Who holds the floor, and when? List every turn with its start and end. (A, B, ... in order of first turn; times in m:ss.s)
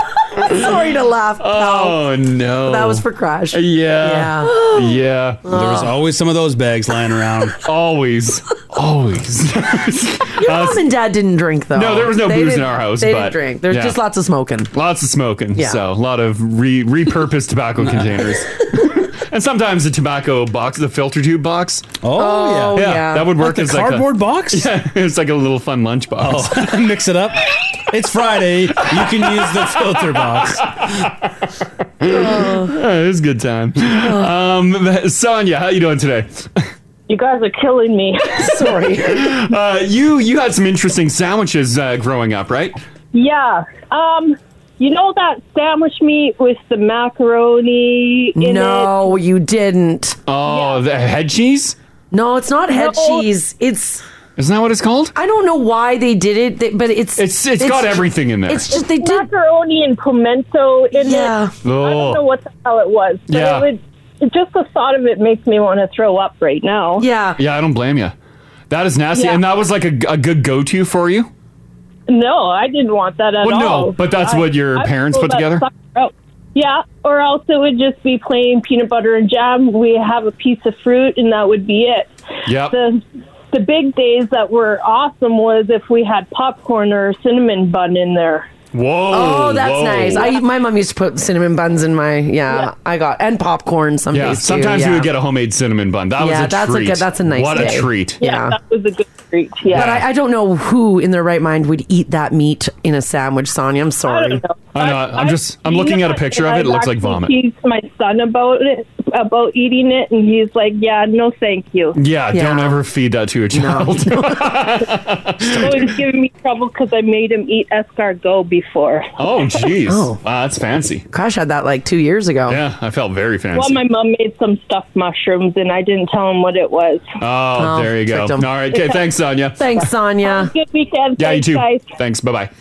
0:00.3-0:02.0 A
0:01.4-0:05.6 B
0:02.6-0:05.9 A
0:05.5-0:07.6 C
0:07.6-0:10.9 B
0:10.3-0:14.7 A
0:11.7-0:14.0 B
0:14.7-0:22.0 B
0:17.8-0:18.3 C
0:22.0-0:24.7 C
0:22.1-0:23.3 A
0:22.8-0:26.7 B
0:26.2-0:31.1 C
0:28.9-0:31.0 B
0:32.0-0:36.7 B
0:32.0-0:32.8 A
0:34.0-0:34.3 A
0:37.1-0:38.8 D
0:38.4-0:39.4 A
0:39.0-0:42.8 B
0:43.1-0:49.0 D
0:48.4-0:50.2 A
0:50.3-0:51.8 B
0:50.4-0:50.8 D
0:52.1-0:54.0 A
0:52.7-0:53.3 D
0:54.4-0:55.2 B
0:55.2-0:59.3 A
0:57.2-0:58.6 B
0:58.7-1:07.0 D
1:00.9-1:01.5 A
1:01.6-1:02.2 B
1:03.3-1:03.7 B
1:07.0-1:07.4 A
1:07.4-1:08.1 B
1:08.7-1:11.3 B
1:09.1-1:09.4 D
1:12.1-1:22.1 D
1:13.4-1:15.6 B
1:22.4-1:22.8 B
1:22.6-1:28.5 D
1:28.7-1:30.3 B
1:29.1-1:35.1 A
1:34.1-1:38.2 B
1:36.2-1:38.6 A
1:37.6-1:40.0 D
1:39.7-1:40.0 B
1:39.7-1:44.4 A
1:44.1-1:52.0 D
1:44.8-1:47.3 B
1:52.0-1:55.9 B
1:52.3-1:52.8 A
1:53.5-1:54.8 A
1:55.4-1:59.7 D
1:55.5-1:55.8 A
1:59.2-2:01.0 B
1:59.9-2:00.2 A
2:01.1-2:02.6 A
2:02.5-2:03.8 B
2:03.5-2:07.0 D
2:07.2-2:09.7 B
2:07.6-2:08.5 A
2:08.7-2:09.0 D
2:09.6-2:10.5 A
2:10.2-2:11.9 D
2:11.2-2:12.5 B